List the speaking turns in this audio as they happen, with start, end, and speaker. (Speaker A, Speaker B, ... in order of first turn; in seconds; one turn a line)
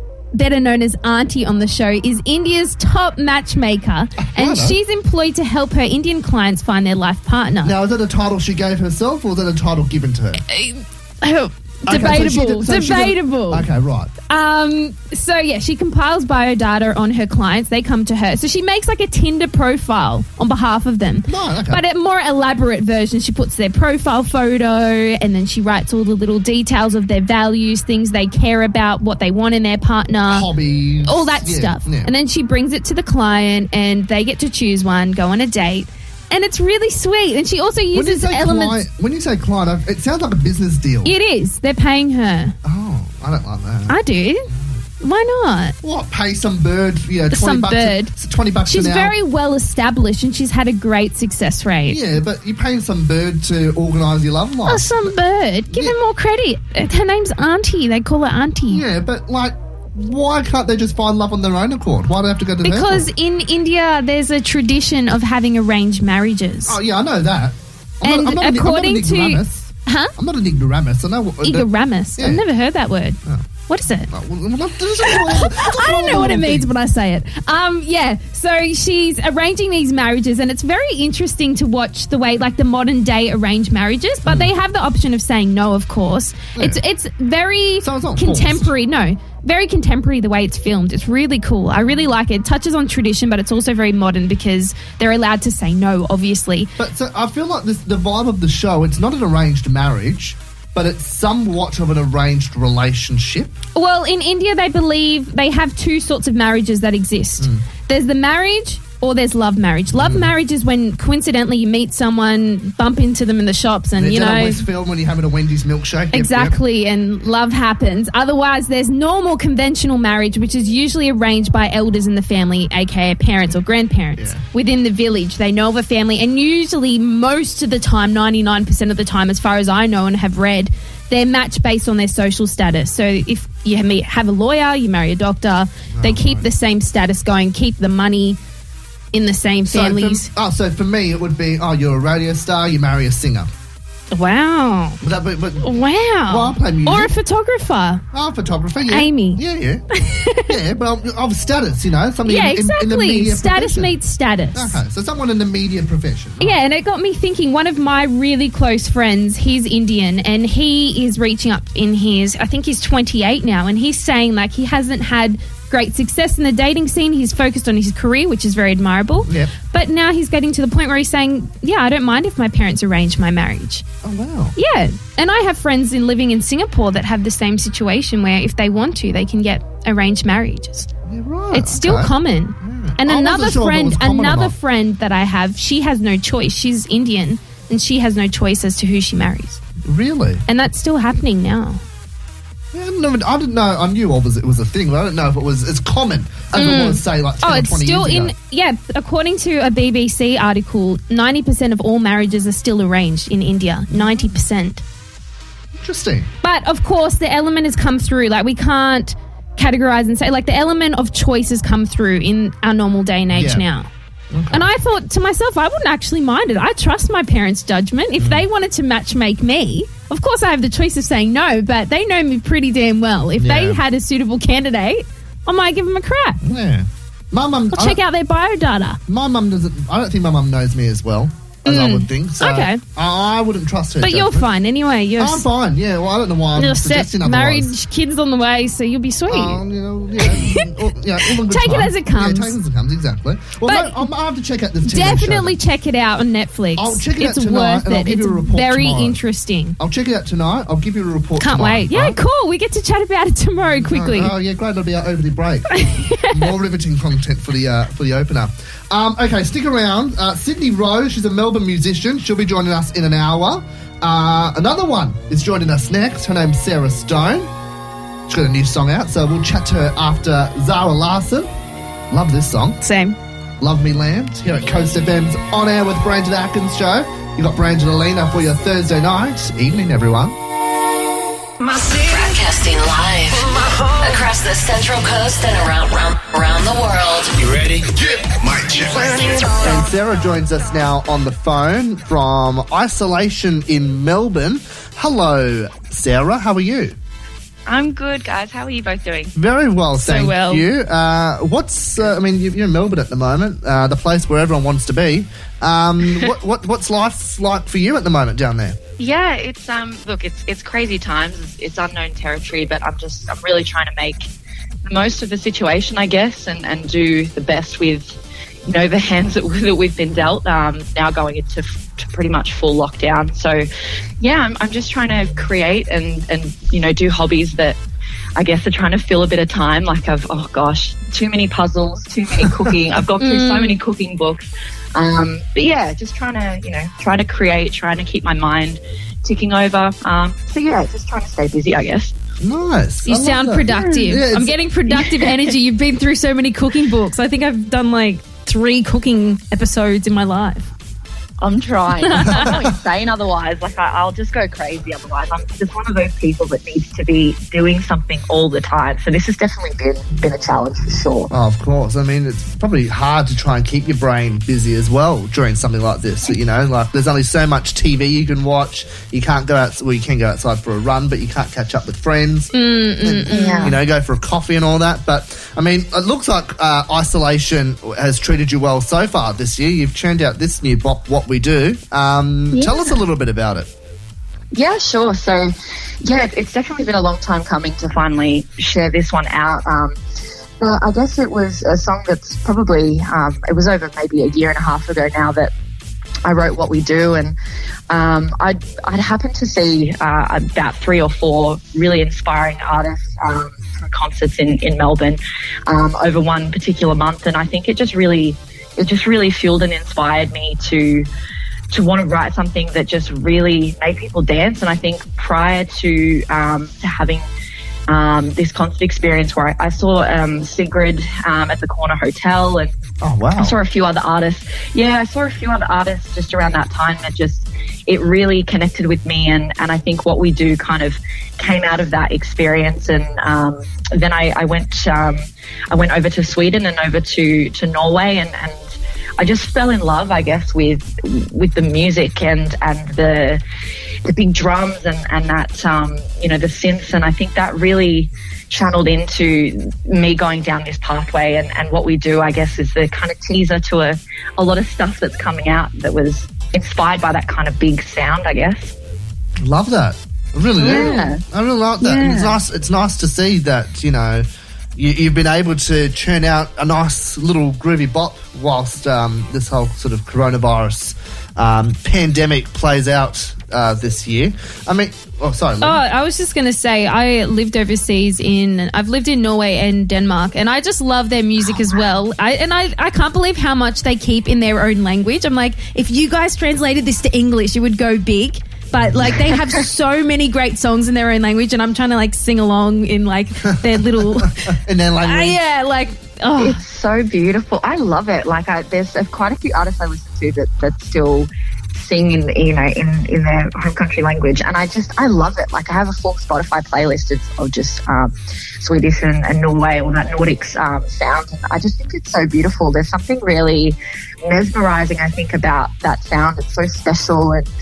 Speaker A: 0.3-7.7
Speaker B: 4.2-4.8
Speaker B: 7.6-10.4
Speaker A: 10.5-13.7
Speaker B: 11.9-14.1
Speaker A: 14.3-30.5
Speaker B: 21.3-21.8
Speaker B: 30.3-32.1
Speaker A: 31.1-38.8
Speaker B: 37.9-41.1
Speaker A: 41.0-42.5
Speaker B: 42.6-44.8
Speaker A: 43.9-44.5
Speaker A: 45.0-45.8
Speaker B: 45.8-49.1
Speaker A: 47.3-48.1
Speaker A: 48.6-52.0
Speaker B: 51.9-55.1
Speaker A: 54.7-58.8
Speaker B: 55.7-56.0
Speaker B: 58.7-63.1
Speaker A: 62.6-66.8
Speaker B: 66.7-72.4
Speaker A: 68.0-70.1
Speaker A: 71.4-74.1
Speaker B: 74.1-76.7
Speaker A: 75.0-96.7
Speaker B: 84.2-84.5
Speaker B: 87.8-88.7
Speaker B: 96.8-103.6
Speaker A: 103.7-114.6
Speaker B: 109.9-110.3
Speaker B: 114.0-116.6
Speaker A: 116.1-138.4
Speaker B: 124.2-124.4
Speaker B: 135.9-136.5
Speaker A: 139.1-140.3
Speaker B: 139.7-143.5
Speaker A: 144.1-145.0
Speaker B: 145.0-147.1
Speaker A: 145.6-148.0
Speaker B: 148.1-149.8
Speaker A: 148.9-149.4
Speaker A: 149.9-150.5
Speaker B: 150.4-153.9
Speaker A: 152.2-154.8
Speaker B: 154.5-156.6
Speaker A: 156.4-173.8
Speaker B: 169.3-169.5
Speaker B: 174.0-174.6
Speaker A: 174.6-180.9
Speaker B: 181.1-184.6
Speaker A: 181.5-189.6
Speaker B: 189.8-190.4
Speaker A: 190.5-191.8
Speaker B: 192.7-198.3
Speaker A: 196.5-204.8
Speaker B: 203.9-204.4
Speaker B: 205.7-206.3
Speaker A: 206.4-213.9
Speaker B: 213.3-213.6
Speaker B: 214.3-214.7
Speaker A: 214.5-226.4
Speaker B: 218.2-218.4
Speaker B: 223.4-223.8
Speaker B: 226.4-228.0
Speaker A: 227.7-229.0
Speaker B: 229.1-234.5
Speaker A: 231.7-232.8
Speaker A: 234.0-235.5
Speaker B: 235.2-237.7
Speaker A: 236.6-239.6
Speaker B: 239.3-245.6
Speaker A: 240.2-240.7
Speaker A: 241.2-242.6
Speaker A: 243.6-244.1
Speaker A: 244.8-249.8
Speaker B: 246.8-249.2
Speaker B: 249.8-252.2
Speaker A: 251.4-254.3
Speaker B: 253.8-267.5
Speaker A: 255.8-256.5
Speaker B: 268.3-271.5
Speaker B: 272.1-272.8
Speaker A: 272.8-273.2
Speaker B: 273.6-280.4
Speaker C: 281.7-287.4
Speaker D: 287.4-289.5
Speaker B: 289.5-297.0
Speaker E: 297.6-299.4
Speaker B: 299.4-308.8
Speaker E: 300.1-300.6
Speaker E: 309.0-314.3
Speaker E: 314.9-323.7
Speaker E: 324.2-327.8
Speaker E: 328.4-342.1
Speaker A: 333.2-333.8
Speaker B: 342.4-344.6
Speaker A: 343.1-350.7
Speaker E: 343.7-344.0
Speaker E: 344.9-345.4
Speaker E: 351.4-361.3
Speaker A: 352.0-352.6
Speaker B: 352.3-352.6
Speaker B: 361.3-372.5
Speaker A: 372.5-373.8
Speaker B: 373.0-383.7
Speaker E: 373.3-373.8
Speaker A: 382.5-382.9
Speaker E: 384.5-390.0
Speaker E: 390.6-395.5
Speaker E: 396.2-397.4
Speaker E: 397.9-411.1
Speaker E: 411.7-417.3
Speaker E: 417.9-422.7
Speaker B: 423.0-423.6
Speaker E: 423.4-443.4
Speaker E: 444.1-458.7
Speaker B: 459.4-475.8
Speaker E: 460.6-461.2
Speaker A: 460.6-461.1
Speaker E: 461.8-462.4
Speaker A: 475.6-496.6
Speaker B: 488.7-489.1
Speaker B: 493.6-495.4
Speaker E: 496.4-517.5